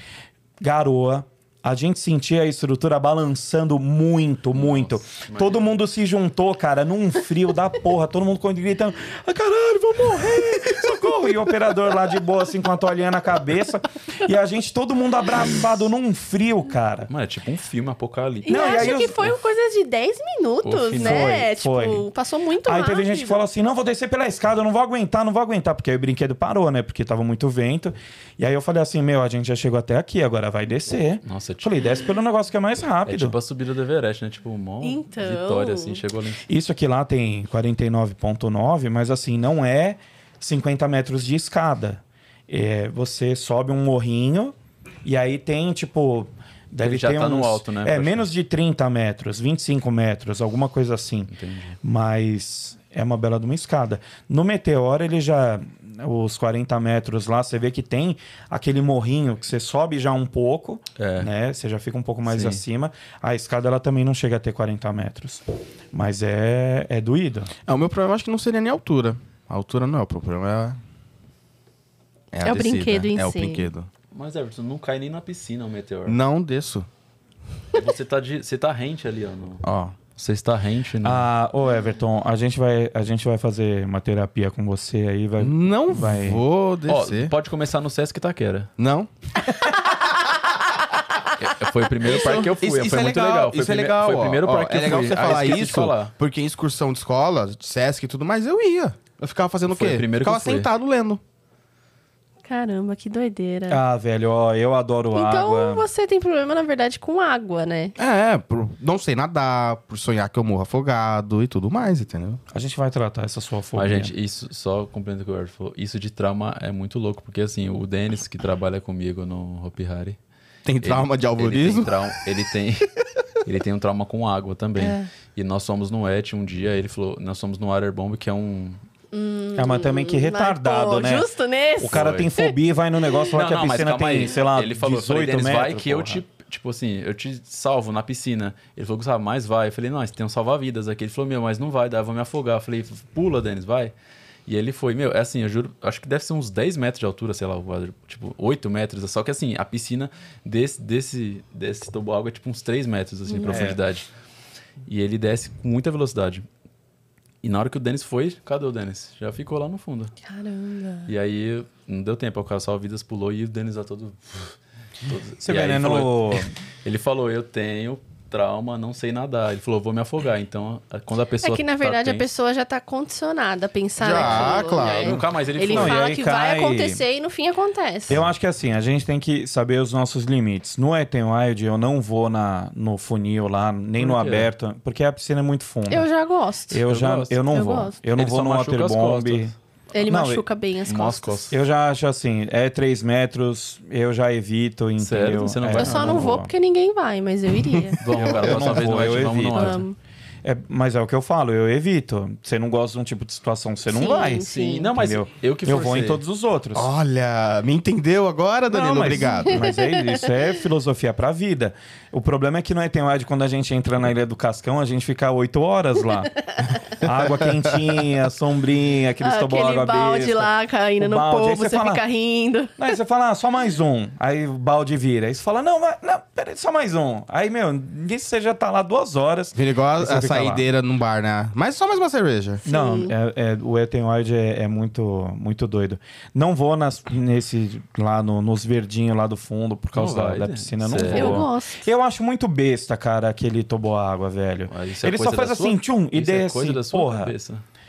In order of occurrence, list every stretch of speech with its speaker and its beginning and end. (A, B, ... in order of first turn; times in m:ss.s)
0:00.6-0:17.1 A
0:04.6-0:05.7 B
0:17.1-0:19.3 B
0:18.4-0:23.4 C
0:18.5-0:19.2 A
0:20.6-0:21.3 B
0:21.0-0:22.1 A
0:22.6-0:33.4 A
0:31.2-0:31.8 B
0:33.1-0:36.4 B
0:34.8-0:36.0 C
0:36.5-0:51.3 A
0:46.8-0:48.3 B
0:51.3-0:51.8 B
0:51.8-1:07.5 A
1:01.0-1:01.3 B
1:02.3-1:02.6 B
1:07.7-1:10.8 D
1:12.3-1:13.9 D
1:12.4-1:13.7 C
1:14.1-1:16.2 B
1:16.1-1:16.9 D
1:17.7-1:19.6 B
1:19.6-1:20.0 D
1:20.2-1:21.3 B
1:21.0-1:26.4 A
1:25.4-1:27.3 D
1:26.9-1:28.7 B
1:28.8-1:29.1 D
1:31.4-1:36.1 B
1:32.0-1:41.2 D
1:39.7-1:40.7 B
1:42.4-1:43.8 C
1:43.7-1:45.9 A
1:45.1-1:48.0 C
1:48.0-1:52.4 D
1:52.5-1:54.1 A
1:53.8-2:00.2 B
2:00.6-2:02.0 D
2:00.8-2:02.9 B
2:03.4-2:08.8 B
2:04.8-2:05.1 C
2:09.1-2:12.5 C
2:09.6-2:16.2 A
2:11.9-2:12.3 B
2:13.3-2:23.9 B
2:24.5-2:34.1 B
2:33.3-2:33.6 C
2:33.4-2:33.8 A
2:34.9-2:36.5 B
2:37.4-2:40.1 B
2:40.2-2:41.1 C
2:41.1-2:52.3 B
2:45.4-2:46.5 A
2:51.4-2:58.2 C
2:54.0-2:55.2 D
2:54.2-2:56.1 B
2:55.7-2:57.0 A
2:58.1-3:06.1 A
3:04.0-3:04.5 B
3:05.9-3:06.8 C
3:06.7-3:10.4 A
3:06.9-3:07.6 B
3:07.5-3:08.0 C
3:08.2-3:09.5 B
3:09.9-3:11.5 C
3:10.9-3:11.6 B
3:11.5-3:16.5 A
3:15.0-3:16.4 B
3:15.8-3:20.0 C
3:18.0-3:19.8 B
3:18.1-3:19.8 A
3:20.4-3:26.9 A
3:23.9-3:24.9 C
3:24.4-3:26.2 B
3:26.7-3:29.7 D
3:28.7-3:42.0 A
3:39.2-3:42.8 C
3:42.8-3:50.6 A
3:49.5-3:52.6 D
3:52.7-3:53.1 C
3:52.7-4:07.3 A
3:59.9-4:01.5 B
4:01.1-4:01.9 C
4:04.7-4:07.6 B